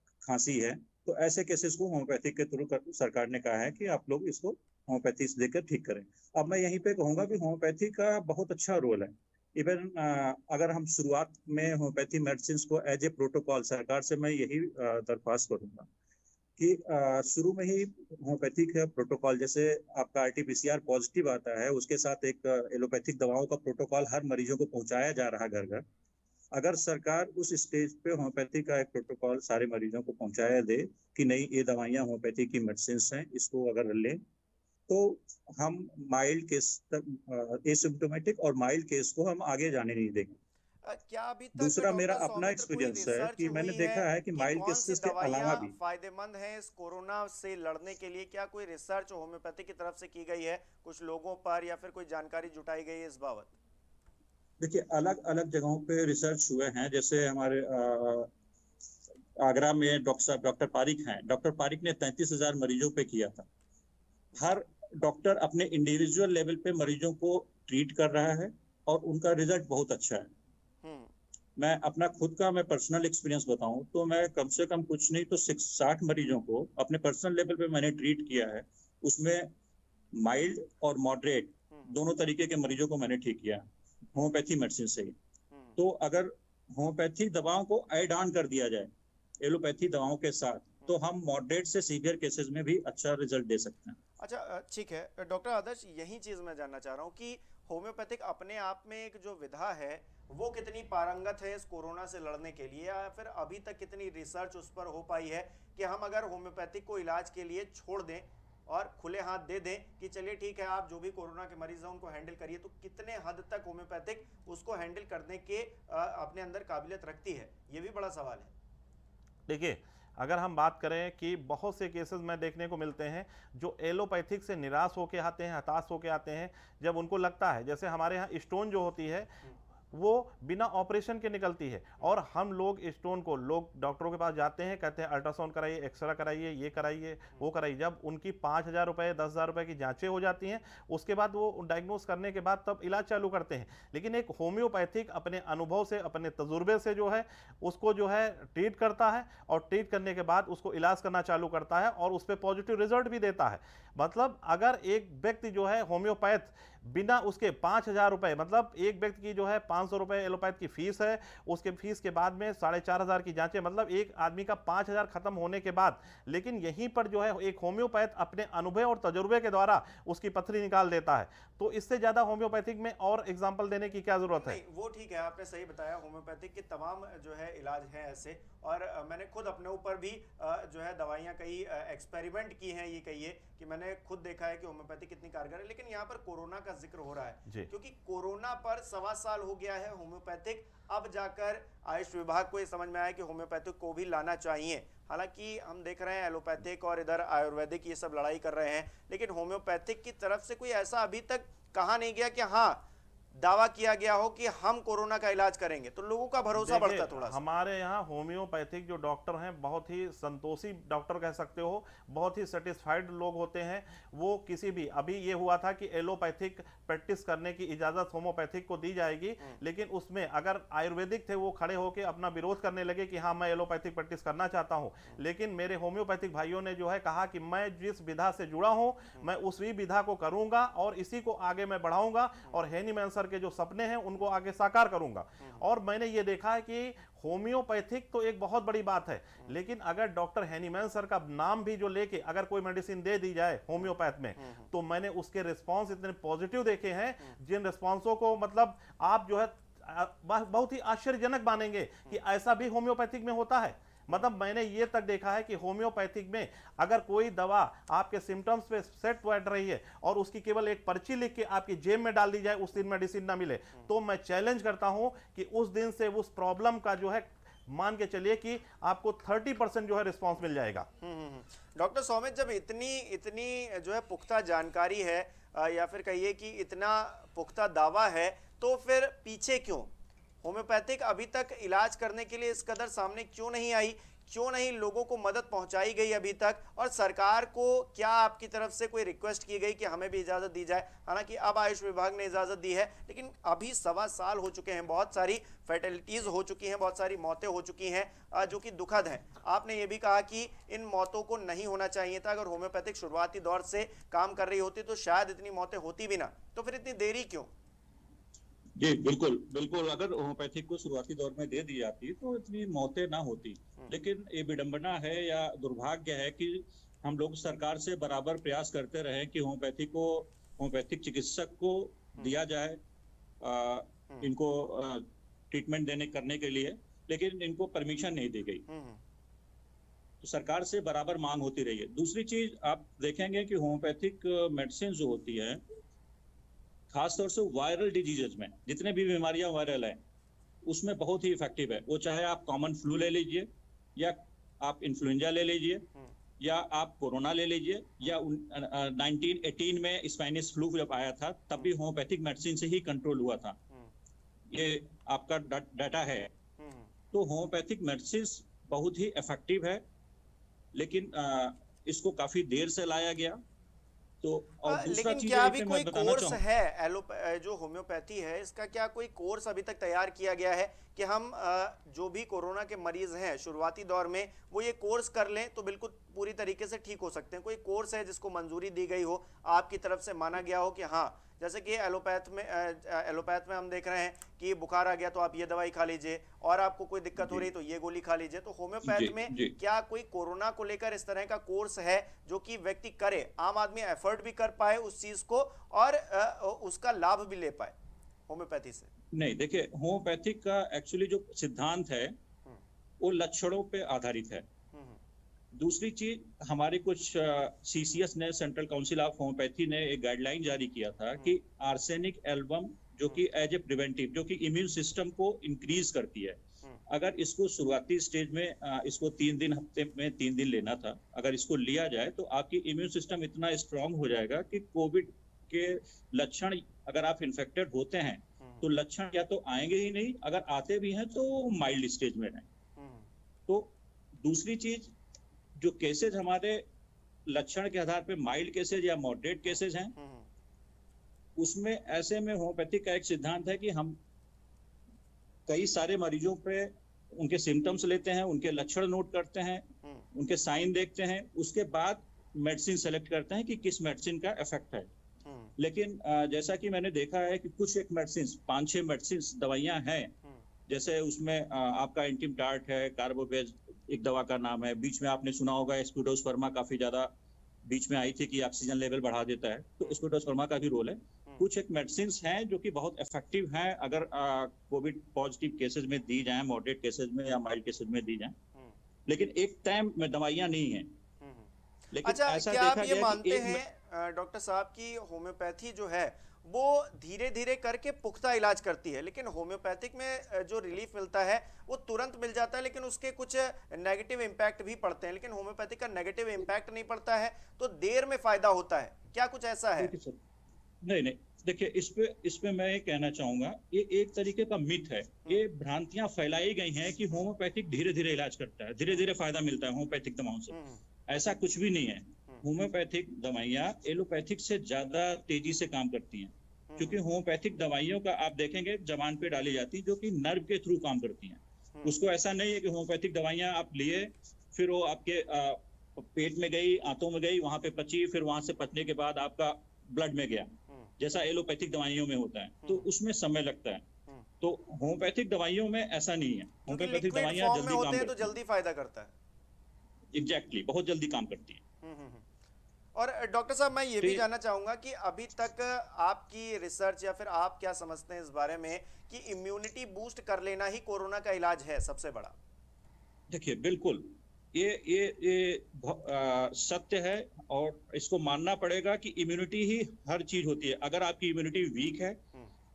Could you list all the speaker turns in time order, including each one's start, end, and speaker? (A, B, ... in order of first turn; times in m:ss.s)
0:00.2-0:15.9 A
0:16.6-0:25.8 A
0:26.5-0:34.2 A
0:34.9-0:40.4 A
0:40.8-0:53.5 B
0:41.6-0:45.7 A
0:54.6-0:58.3 A
0:59.4-1:03.5 A
1:04.4-1:10.3 A
1:10.8-1:11.1 B
1:11.6-1:19.5 A
1:20.1-1:23.6 A
1:24.1-1:25.2 A
1:25.8-1:28.9 A
1:29.4-1:34.0 A
1:34.2-1:58.5 B
1:59.5-2:09.3 C
2:09.9-2:54.6 C
2:54.4-3:22.8 B
3:23.4-3:27.4 B
3:26.6-4:30.9 C
4:31.0-4:39.9 B
4:40.4-5:07.5 B
5:08.8-5:22.8 A
5:23.4-5:28.6 A
5:28.7-5:29.0 B
5:30.2-5:35.6 A
5:36.9-5:40.0 A
5:40.6-5:45.9 A
5:46.4-5:53.6 A
5:54.5-5:56.3 A
5:56.6-5:56.9 B
5:57.1-5:59.8 A
6:00.7-6:03.4 A
6:04.2-6:06.4 A
6:04.7-6:37.7 B
6:27.2-6:27.5 A
6:28.8-6:29.5 A
6:38.3-6:38.9 B
6:39.1-6:42.2 A
6:43.0-6:44.5 A
6:44.7-6:45.0 B
6:45.5-7:12.5 A
7:12.8-7:13.1 B
7:13.5-7:14.9 A
7:15.6-7:16.6 A
7:17.3-7:19.9 A
7:20.0-7:20.3 B
7:21.4-7:24.0 A
7:25.5-7:34.9 A
7:35.2-7:35.5 B
7:35.6-7:40.1 A
7:40.7-7:47.1 A
7:47.6-7:58.4 A
7:59.1-8:00.9 A
8:01.2-8:01.5 B
8:01.9-8:03.6 A
8:02.0-8:19.9 B
8:19.8-8:20.2 A
8:20.8-8:53.9 A
8:30.5-8:30.8 B
8:36.7-8:37.0 B
8:54.4-8:58.3 A
8:56.7-8:59.1 B
9:00.1-9:01.6 A
9:01.8-9:02.2 B
9:02.9-9:12.4 B
9:13.3-9:22.2 A